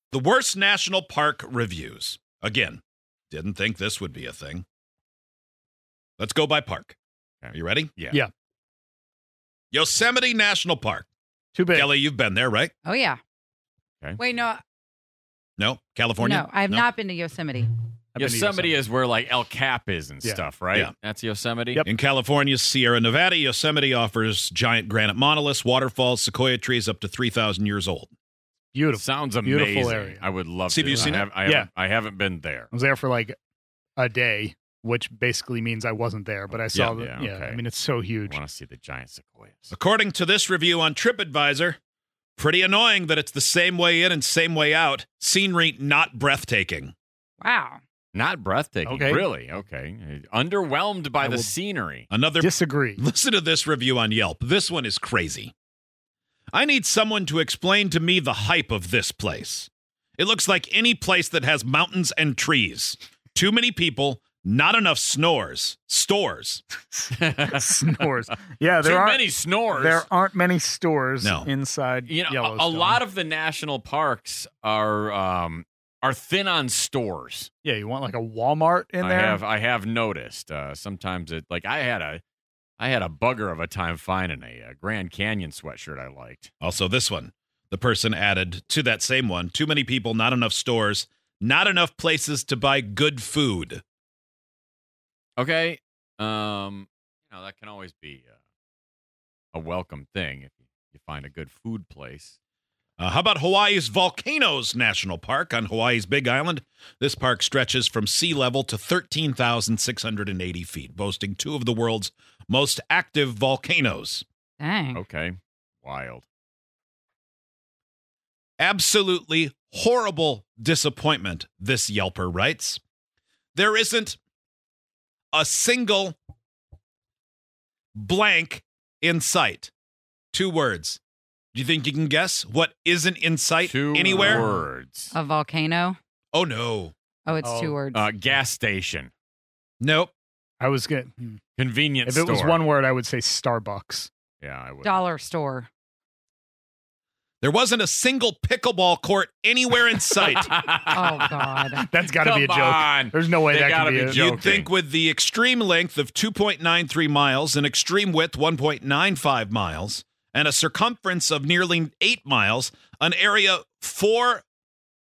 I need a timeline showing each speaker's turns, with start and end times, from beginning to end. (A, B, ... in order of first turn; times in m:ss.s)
0:00.1-0:04.6 A
0:06.2-0:07.0 A
0:07.4-0:08.2 B
0:07.5-0:07.9 A
0:09.7-0:11.0 A
0:11.5-0:11.9 C
0:11.7-0:12.7 A
0:12.8-0:13.2 D
0:14.2-0:14.6 D
0:15.6-0:16.8 A
0:16.2-0:17.7 D
0:18.1-0:18.8 C
0:18.2-0:21.8 B
0:21.8-0:28.1 A
0:28.7-0:30.2 C
0:28.9-0:32.7 B
0:30.7-0:31.3 A
0:31.0-0:31.7 C
0:32.7-0:33.4 C
0:34.0-0:38.4 C
0:36.7-0:37.6 B
0:38.2-0:39.7 B
0:39.7-0:41.8 A
0:42.4-0:46.9 A
0:47.4-0:47.8 D
0:48.1-0:52.1 B
0:48.9-0:49.2 C
0:52.1-0:55.5 A
0:52.4-0:53.0 C
0:56.5-1:06.6 A
1:07.2-1:08.1 B
1:07.4-1:13.0 C
1:08.8-1:10.1 B
1:11.2-1:11.5 A
1:12.0-1:17.5 B
1:17.6-1:19.4 C
1:19.0-1:22.2 B
1:22.8-1:26.5 B
1:26.6-1:33.8 A
1:35.4-1:38.4 B
1:39.5-1:42.4 B
1:43.0-1:54.2 A
1:54.6-1:55.0 D
1:54.9-1:56.3 B
1:58.6-2:02.8 A
2:03.5-2:04.2 A
2:05.3-2:06.2 A
2:08.0-2:09.7 A
2:10.3-2:11.0 A
2:11.5-2:14.5 A
2:13.6-2:15.1 B
2:15.1-2:16.0 D
2:16.3-2:16.9 A
2:17.2-2:18.0 D
2:17.4-2:17.8 C
2:17.9-2:19.1 B
2:19.8-2:20.1 A
2:20.6-2:21.4 C
2:21.6-2:22.6 B
2:22.0-2:24.1 C
2:24.4-2:25.0 B
2:24.8-2:25.7 D
2:27.4-2:30.5 A
2:30.1-2:34.7 B
2:30.9-2:31.8 D
2:31.8-2:34.2 C
2:34.1-2:44.4 A